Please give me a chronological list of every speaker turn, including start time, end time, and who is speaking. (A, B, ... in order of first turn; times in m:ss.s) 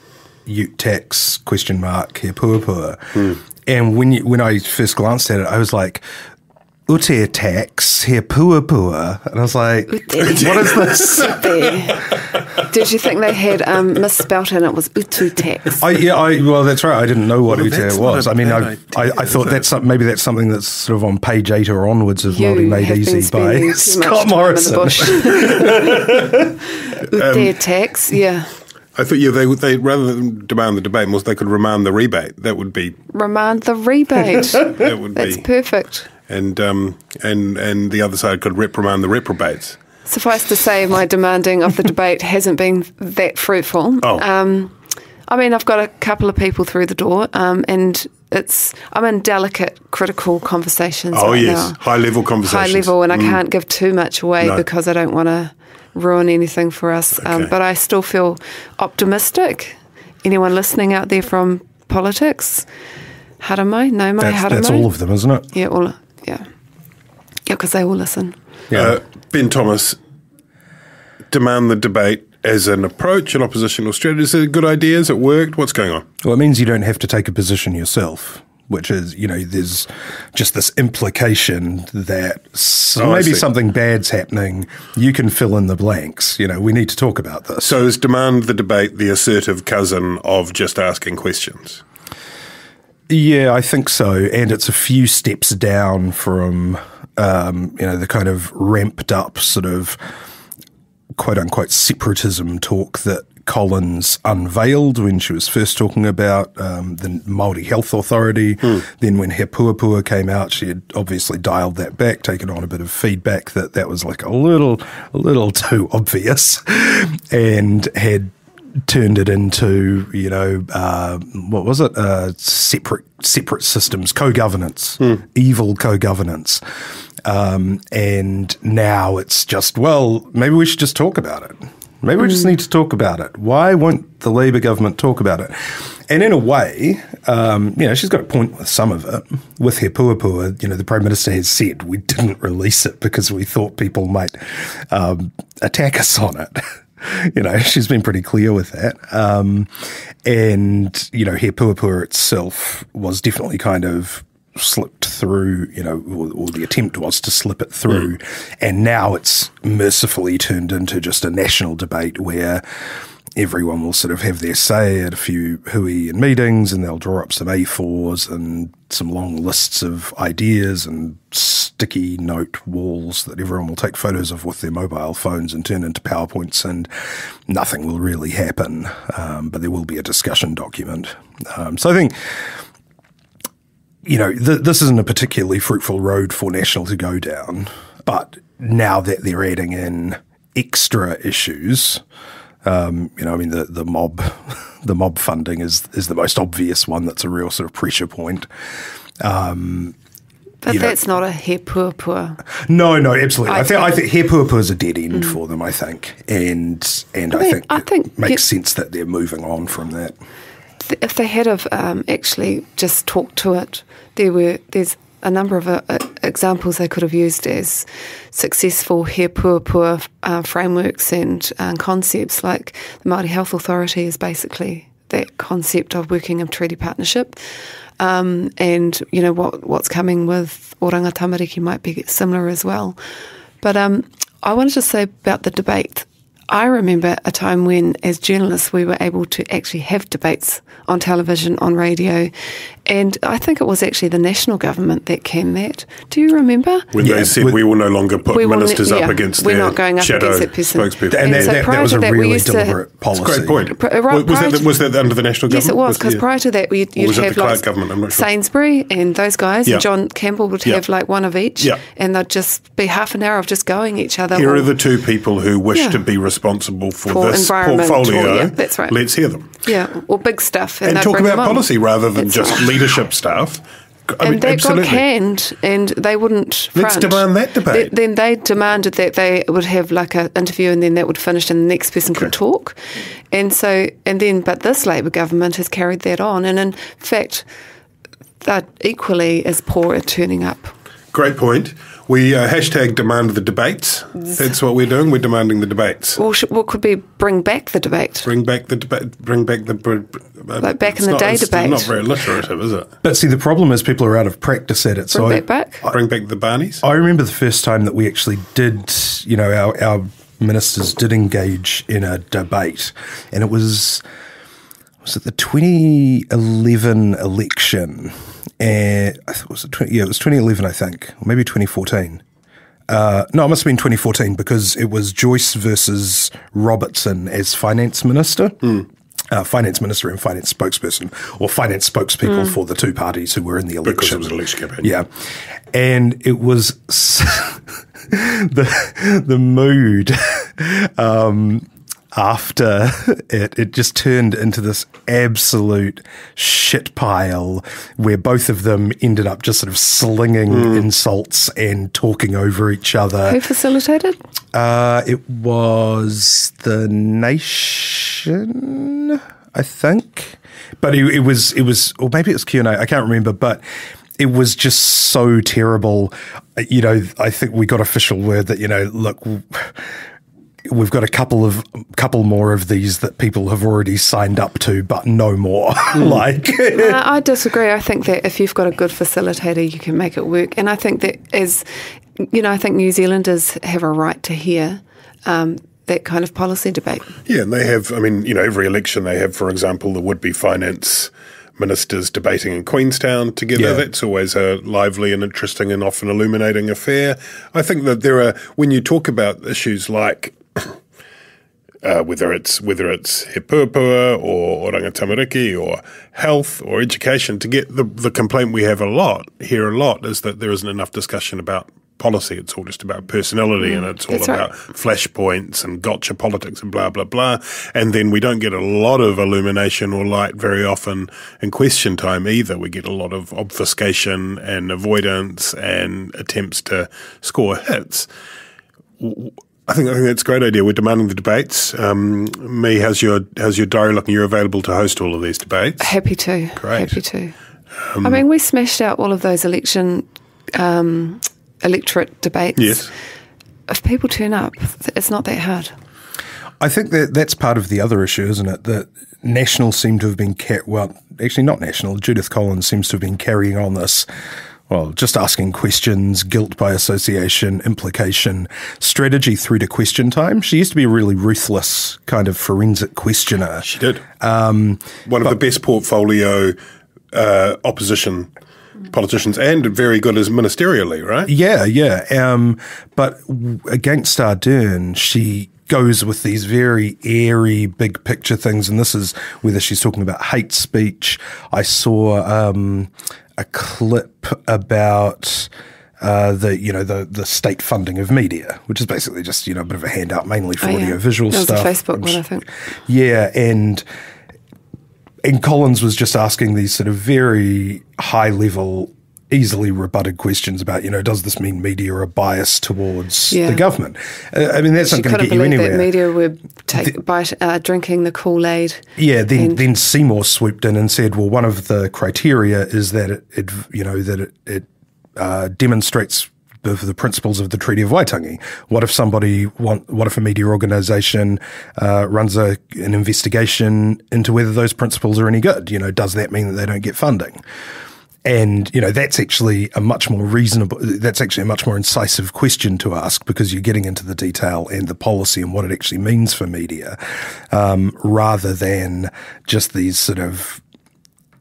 0:00.4-0:06.0 A
0:06.9-0:11.4 A
0:09.9-0:12.0 B
0:10.2-0:11.3 C
0:12.6-0:15.8 B
0:15.8-0:26.4 A
0:17.5-0:19.6 C
0:22.3-0:25.7 B
0:25.4-0:26.1 C
0:27.1-0:28.5 B
0:27.1-0:27.6 C
0:28.9-0:33.0 C
0:33.1-0:36.1 B
0:34.7-0:35.5 C
0:36.1-0:39.8 C
0:40.0-0:44.7 B
0:45.3-0:51.8 B
0:51.1-0:53.4 C
0:52.4-1:02.7 B
0:54.4-0:54.6 C
0:57.2-0:57.5 C
1:03.4-1:04.9 B
1:04.2-1:05.5 A
1:05.5-1:06.5 B
1:07.5-1:08.4 B
1:08.7-1:09.0 A
1:08.7-1:10.0 C
1:11.3-1:16.0 C
1:16.2-1:27.7 A
1:23.0-1:23.5 C
1:27.6-1:31.8 C
1:33.1-1:40.0 A
1:41.2-2:06.6 A
2:07.2-2:29.7 A
2:12.2-2:12.5 B
2:30.2-2:42.6 A
2:43.3-2:56.9 A
2:57.5-3:02.5 A
3:04.0-3:12.0 A
3:12.6-3:18.5 A
3:19.2-3:19.9 A
3:20.6-3:22.4 B
3:20.7-3:21.0 A
3:22.6-3:30.2 A
3:23.5-3:24.0 B
3:27.3-3:28.4 B
3:30.8-3:47.4 B
3:48.0-3:53.0 B
3:53.6-4:02.3 B
4:02.8-4:06.9 B
4:06.9-4:11.6 C
4:07.0-4:07.6 A
4:08.3-4:12.8 B
4:11.1-4:13.7 A
4:13.1-4:16.2 C
4:13.7-4:14.7 B
4:15.5-4:24.7 B
4:17.0-4:18.3 C
4:24.3-4:29.5 C
4:25.7-4:26.0 B
4:27.0-4:29.0 B
4:29.6-4:32.8 B
4:30.8-4:35.0 C
4:34.2-4:42.8 B
4:36.7-4:37.9 C
4:43.3-4:47.4 B
4:48.4-4:50.7 B
4:51.1-4:56.2 C
4:56.2-4:58.3 B
4:58.2-5:02.9 C
5:00.6-5:01.9 B
5:03.0-5:06.0 A
5:05.1-5:05.8 B
5:05.9-5:06.8 C
5:06.8-5:14.0 A
5:15.0-5:22.2 A
5:22.9-5:35.1 A
5:32.2-5:32.5 B
5:33.8-5:34.9 C
5:35.7-5:53.4 A
5:50.5-5:50.8 C
5:53.2-5:54.2 B
5:54.5-6:03.6 A
6:04.2-6:09.8 A
6:10.6-6:17.0 A
6:16.7-6:21.6 B
6:22.2-6:27.1 B
6:27.2-6:40.8 C
6:33.6-6:33.8 A
6:41.8-7:08.1 C
6:53.6-6:54.5 B
7:09.0-7:15.9 C
7:15.8-7:17.3 B
7:16.6-7:17.0 C
7:17.9-7:18.2 C
7:18.0-7:22.9 B
7:22.6-7:22.9 C
7:23.7-7:25.7 B
7:26.6-7:34.0 A
7:34.7-7:43.7 A
7:43.6-7:44.0 C
7:44.2-7:45.4 A
7:45.0-7:46.6 C
7:47.1-7:48.3 C
7:48.9-7:51.3 C
7:51.3-8:05.5 A
8:06.0-8:12.2 A
8:10.6-8:12.4 B
8:12.8-8:13.8 A
8:15.2-8:25.9 A
8:23.3-8:23.6 B
8:24.8-8:29.6 B
8:29.0-8:34.6 A
8:35.2-8:47.4 A
8:48.2-8:57.0 A
8:57.5-9:00.6 A